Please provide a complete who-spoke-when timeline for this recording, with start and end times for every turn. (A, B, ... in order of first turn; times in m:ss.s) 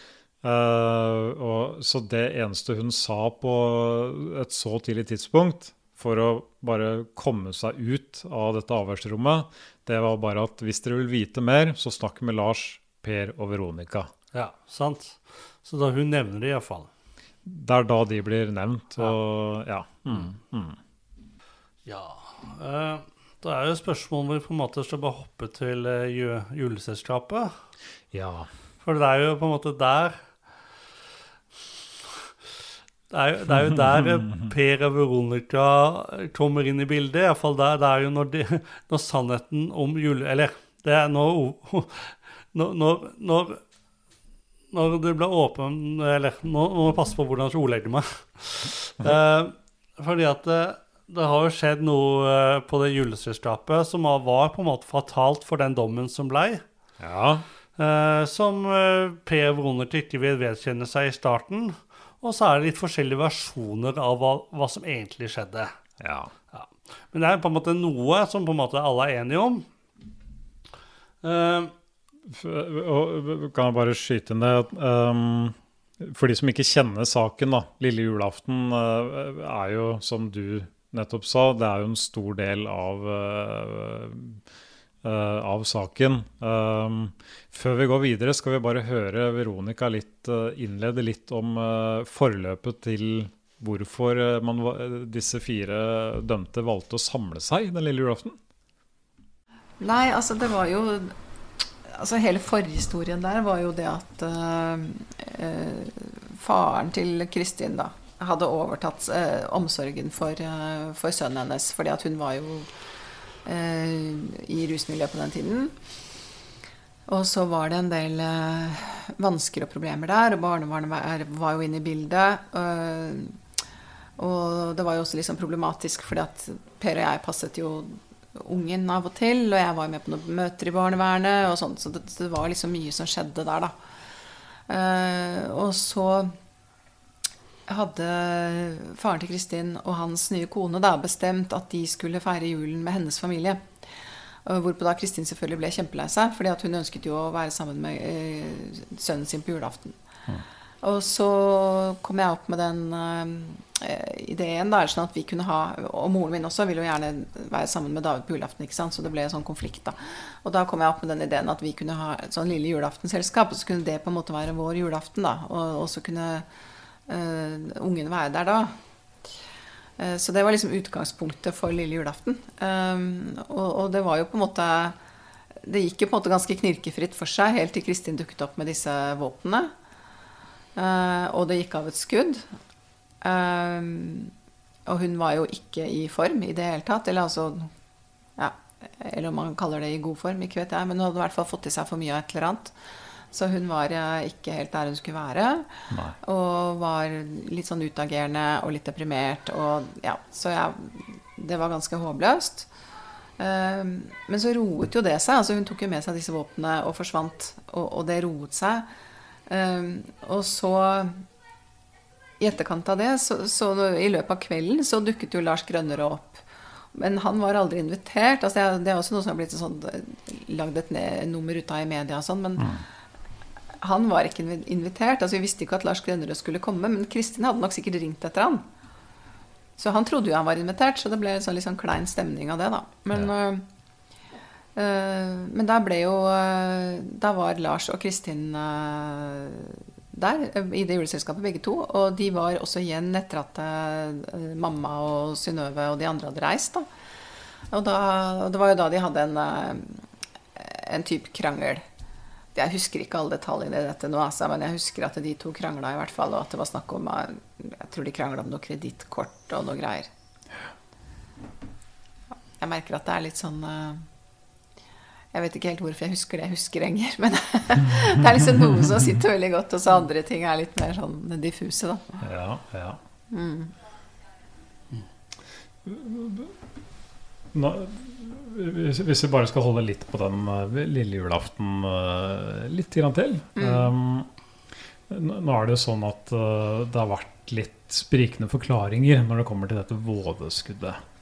0:00.4-0:14.1 A
0:14.3-0:16.9 B
0:17.4-0:20.8 A
0:21.8-0:27.5 B
0:28.1-0:28.5 A
0:28.8-0:30.2 B
0:33.1-0:43.6 B
0:44.7-0:56.6 B
0:57.0-0:57.4 A
0:57.8-1:05.7 B
1:06.0-1:06.3 A
1:06.5-1:09.7 B
1:11.2-1:11.7 B
1:12.2-1:24.4 A
1:25.0-1:38.4 A
1:39.8-1:41.1 C
1:41.9-1:52.7 C
1:53.4-1:55.8 C
1:57.1-2:03.4 C
2:04.2-2:13.7 C
2:14.7-2:16.3 C
2:17.7-2:23.8 C
2:24.4-2:30.0 C
2:30.8-2:46.4 C
2:47.1-2:48.7 C
2:50.0-2:55.0 C
2:55.6-2:59.7 C
3:00.8-3:02.4 C
3:03.2-3:04.3 C
3:04.8-3:07.7 C
3:08.4-3:12.8 C
3:13.3-3:22.7 C
3:15.9-3:16.2 A
3:23.4-3:28.9 C
3:29.5-3:31.2 C
3:32.4-3:42.8 C
3:43.8-3:48.6 C
3:49.8-3:53.6 C
3:54.7-4:06.9 C
4:07.7-4:10.0 C
4:10.5-4:11.8 C
4:12.5-4:20.1 C
4:22.6-4:24.0 C
4:25.3-4:32.2 C
4:32.2-4:33.0 A
4:33.3-4:33.7 C
4:35.8-4:36.5 A
4:37.5-4:44.3 A
4:43.6-4:43.9 C
4:45.1-4:51.0 A